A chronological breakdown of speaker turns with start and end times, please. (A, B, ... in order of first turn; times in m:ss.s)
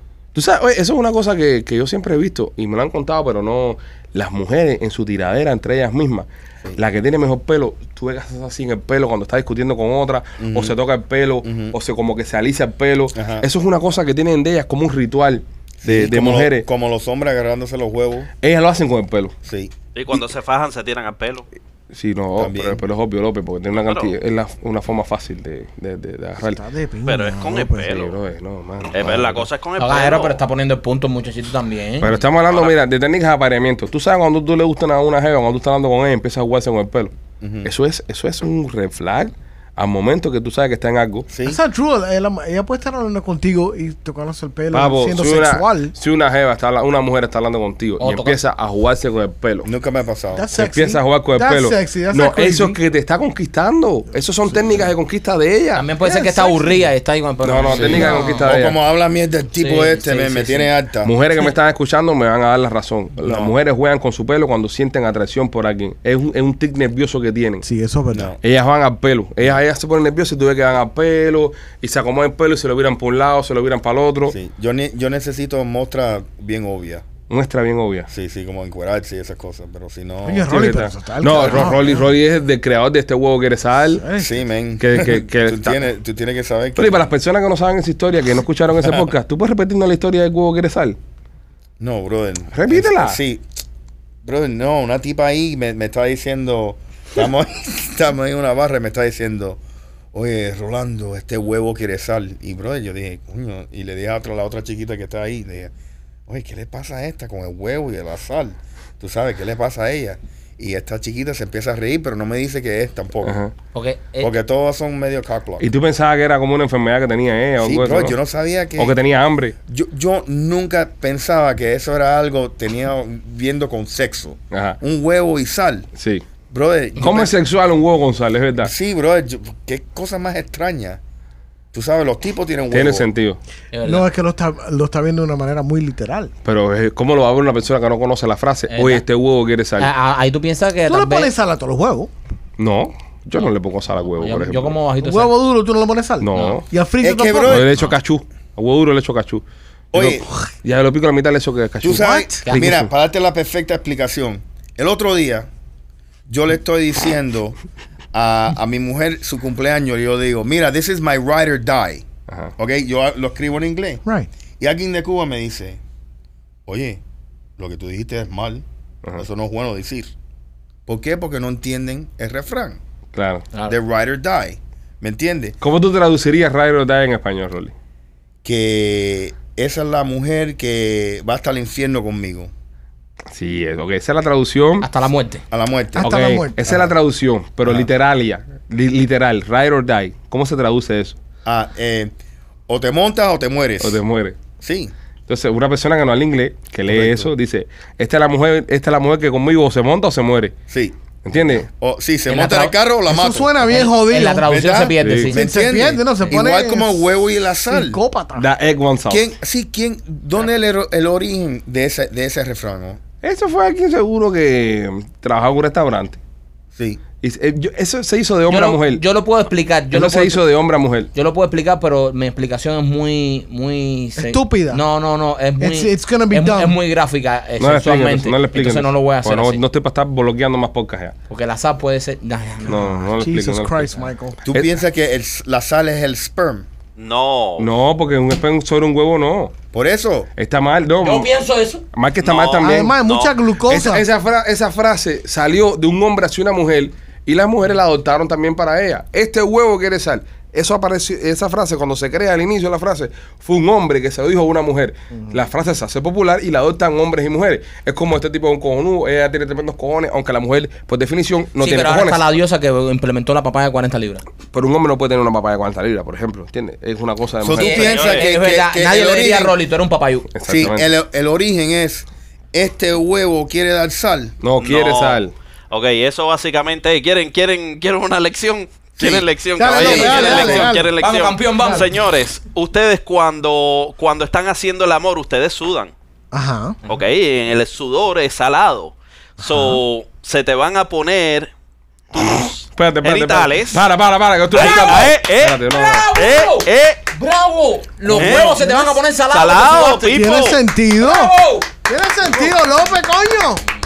0:00.3-0:16.6 A
0:10.4-0:10.7 B
0:11.4-0:11.8 B
0:13.1-0:13.4 B
0:15.8-0:18.3 B
0:18.4-0:19.3 A
0:19.4-0:19.7 B
0:19.9-0:21.4 C
0:21.9-0:26.6 A
0:22.4-0:22.8 B
0:23.8-0:24.1 C
0:26.4-0:27.9 D
0:27.0-0:28.2 C
0:27.9-0:29.5 A
0:28.9-0:30.4 C
0:29.8-0:32.2 E
0:32.0-0:37.1 A
0:32.5-0:32.8 C
0:37.4-0:37.7 B
0:37.6-0:41.3 A
0:41.3-0:41.6 B
0:41.4-0:45.9 D
0:44.7-0:49.7 A
0:48.0-0:48.4 E
0:49.6-0:50.4 B
0:50.3-0:52.8 D
0:50.5-0:55.9 A
0:55.7-0:58.4 E
0:56.0-0:56.8 D
0:57.4-0:58.8 A
0:57.8-1:01.1 B
0:57.9-0:58.3 D
0:59.6-1:00.7 E
1:01.0-1:07.6 A
1:03.2-1:03.5 B
1:07.6-1:08.3 D
1:08.1-1:08.4 B
1:08.4-1:14.4 A
1:14.3-1:17.0 B
1:17.3-1:18.1 A
1:18.1-1:20.6 B
1:20.2-1:22.1 D
1:20.5-1:24.0 A
1:24.0-1:24.3 D
1:24.2-1:27.0 B
1:24.8-1:25.8 A
1:26.8-1:31.0 A
1:31.8-1:33.4 B
1:32.5-1:33.2 A
1:34.2-1:39.6 B
1:40.1-1:45.7 B
1:46.3-1:53.4 B
1:53.2-1:53.5 A
1:53.7-1:54.3 E
1:54.2-1:55.6 B
1:55.6-1:58.2 A
1:57.6-1:58.9 B
1:58.8-1:59.5 A
1:59.7-2:05.9 B
2:04.5-2:04.8 A
2:06.0-2:06.2 A
2:06.5-2:07.3 B
2:07.0-2:08.7 A
2:08.6-2:11.0 B
2:11.7-2:13.1 B
2:12.7-2:13.4 A
2:13.7-2:14.1 E
2:13.8-2:16.3 D
2:16.4-2:19.9 A
2:18.7-2:19.0 E
2:19.8-2:21.3 E
2:20.9-2:22.1 D
2:22.6-2:24.8 A
2:24.2-2:25.3 E
2:25.0-2:27.7 D
2:26.2-2:26.7 A
2:26.3-2:26.6 E
2:27.0-2:27.7 B
2:27.5-2:29.4 A
2:29.9-2:30.2 B
2:29.9-2:32.9 A
2:31.8-2:35.5 B
2:31.9-2:32.3 D
2:36.3-2:37.6 B
2:38.1-2:42.0 B
2:42.6-2:44.0 B
2:44.6-2:45.8 B
2:46.7-2:47.0 B
2:47.6-2:48.6 B
2:49.2-2:50.1 B
2:50.9-2:52.8 B
2:53.1-2:53.5 A
2:53.7-2:55.6 B
2:55.6-2:57.7 A
2:58.4-3:02.5 B
3:03.3-3:04.9 A
3:04.8-3:05.4 E
3:05.5-3:06.9 B
3:06.0-3:06.6 D
3:06.0-3:11.2 A
3:11.4-3:12.1 B
3:12.7-3:14.0 B
3:13.8-3:14.4 A
3:14.6-3:14.9 B
3:15.3-3:20.5 A
3:16.9-3:17.3 B
3:20.7-3:21.0 B
3:21.2-3:21.7 A
3:21.5-3:23.7 B
3:22.3-3:22.7 E
3:23.1-3:24.5 D
3:23.7-3:25.4 E
3:24.4-3:28.0 B
3:25.0-3:25.3 A
3:25.3-3:27.1 D
3:27.7-3:28.5 D
3:28.4-3:29.2 A
3:29.1-3:33.0 B
3:33.2-3:36.2 A
3:36.7-3:37.0 B
3:37.2-3:39.0 A
3:38.5-3:40.4 E
3:39.9-3:41.1 A
3:41.1-3:49.6 E
3:44.2-3:44.8 D
3:45.6-3:46.8 D
3:47.6-3:51.1 A
3:51.3-3:53.2 E
3:52.7-3:53.9 A
3:53.2-3:54.4 D
3:54.4-3:56.7 B
3:54.5-3:54.8 A
3:57.0-3:57.7 C
3:57.6-3:59.5 A
3:59.7-4:00.3 B
4:00.4-4:01.3 A
4:01.0-4:01.8 E
4:01.9-4:03.0 A
4:02.2-4:03.4 C
4:02.6-4:04.0 D
4:03.6-4:22.2 A
4:21.6-4:24.2 E
4:24.5-4:27.9 A
4:27.4-4:29.6 B
4:27.6-4:30.3 E
4:27.8-4:28.3 C
4:30.3-4:30.9 A
4:30.5-4:34.3 B
4:34.4-4:35.3 A
4:34.6-4:45.9 C
4:39.6-4:40.9 D
4:39.8-4:41.9 E
4:46.3-4:46.8 D
4:46.9-4:51.5 C
4:49.4-4:49.8 D
4:52.1-4:53.8 C
4:52.7-4:56.1 A
4:54.5-4:57.0 C
4:55.7-5:00.2 E
4:58.1-4:58.6 C
4:58.1-4:58.9 D
4:59.3-5:00.6 C
5:00.1-5:01.3 D
5:01.0-5:01.7 E
5:01.9-5:03.6 D